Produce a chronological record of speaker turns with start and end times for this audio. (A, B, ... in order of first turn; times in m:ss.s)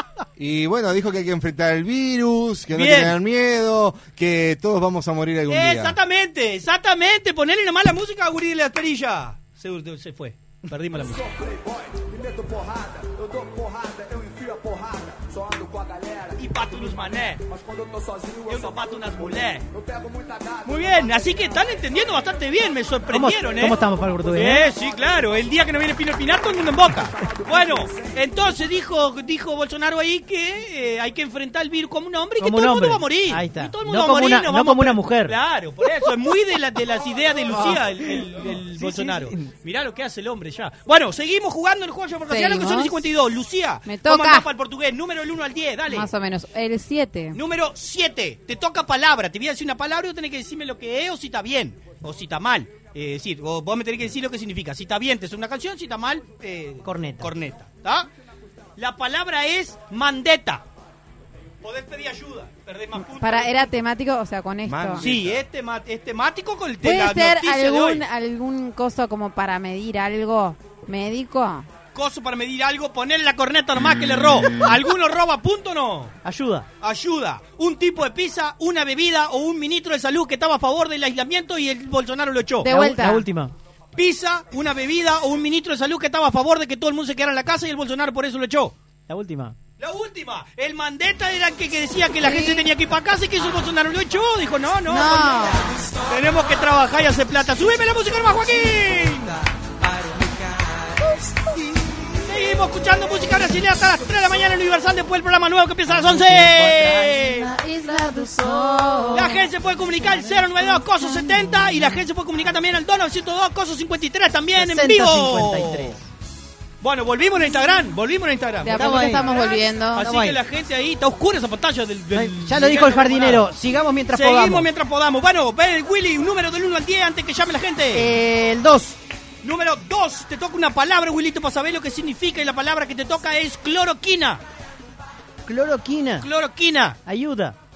0:00.4-0:06.0 A
0:02.7-0:03.2 B
0:05.5-0:11.2 B
0:11.0-0:21.5 C
0:16.4-0:17.4 B
0:18.5-0:19.7 B
0:20.6-0:46.1 B
0:23.1-0:24.7 D
0:27.2-0:28.1 C
0:32.4-0:35.4 D
0:38.7-0:39.4 D
0:42.3-0:42.9 E
0:43.8-0:44.4 E
0:45.9-0:47.4 E
0:47.3-0:58.1 B
0:56.8-0:57.3 D
0:58.8-1:00.6 B
1:01.6-1:03.5 B
1:03.2-1:05.0 E
1:04.6-1:05.4 A
1:05.0-1:08.0 B
1:06.8-1:11.7 E
1:11.9-1:16.1 B
1:16.2-1:16.6 D
1:16.8-1:22.7 B
1:22.6-1:23.3 E
1:22.6-1:23.5 D
1:23.9-1:28.7 B
1:29.1-1:29.6 D
1:29.8-1:39.4 B
1:32.2-1:32.7 E
1:34.9-1:35.7 E
1:42.2-1:47.5 B
1:45.8-1:50.8 D
1:48.4-1:49.2 E
1:49.1-1:56.0 B
1:54.5-1:56.1 D
1:56.8-2:03.5 B
1:58.6-2:00.1 E
1:58.7-1:59.4 D
2:00.0-2:00.4 D
2:02.1-2:04.7 D
2:04.1-2:08.1 B
2:07.9-2:09.0 D
2:09.4-2:14.4 B
2:15.5-2:16.3 D
2:16.2-2:17.0 B
2:17.0-2:17.6 D